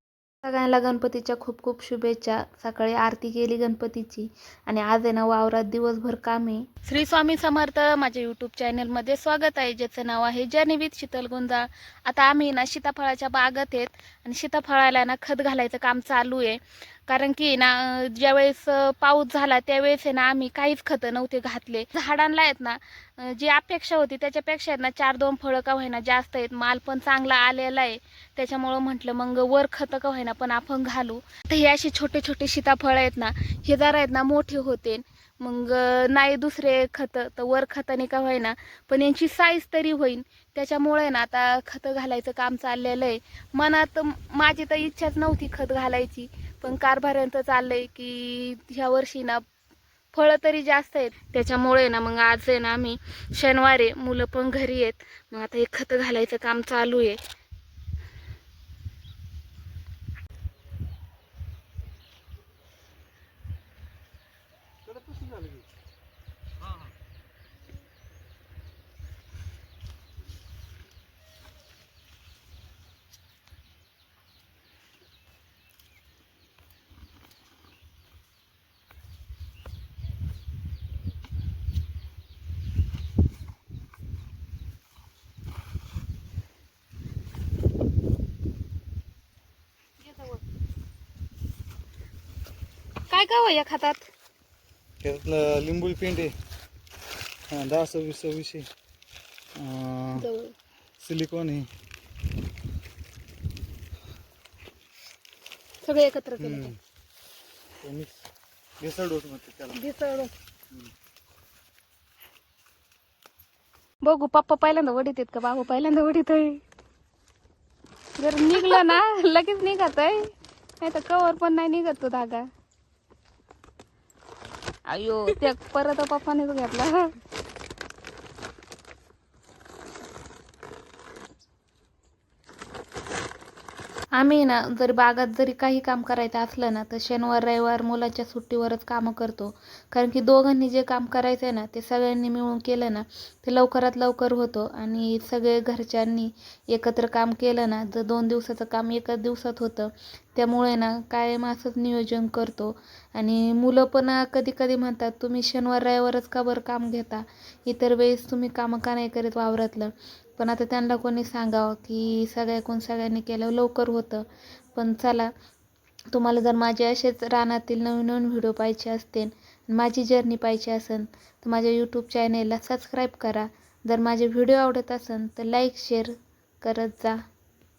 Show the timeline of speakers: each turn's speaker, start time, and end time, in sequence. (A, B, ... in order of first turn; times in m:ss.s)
0:00.4-0:49.4 A
0:50.1-0:57.2 A
1:30.0-1:30.4 A
1:33.1-1:34.1 A
1:35.0-1:36.3 B
1:37.5-1:38.7 B
1:39.6-1:40.3 B
1:40.1-1:40.5 A
1:41.0-1:41.7 B
1:45.8-1:46.7 A
1:46.4-1:46.8 B
1:47.8-1:48.1 B
1:48.8-1:49.8 B
1:49.7-1:50.3 A
1:54.0-1:56.6 A
1:58.2-2:02.5 A
2:04.9-2:07.1 A
2:14.2-2:45.3 A
2:46.1-2:57.2 A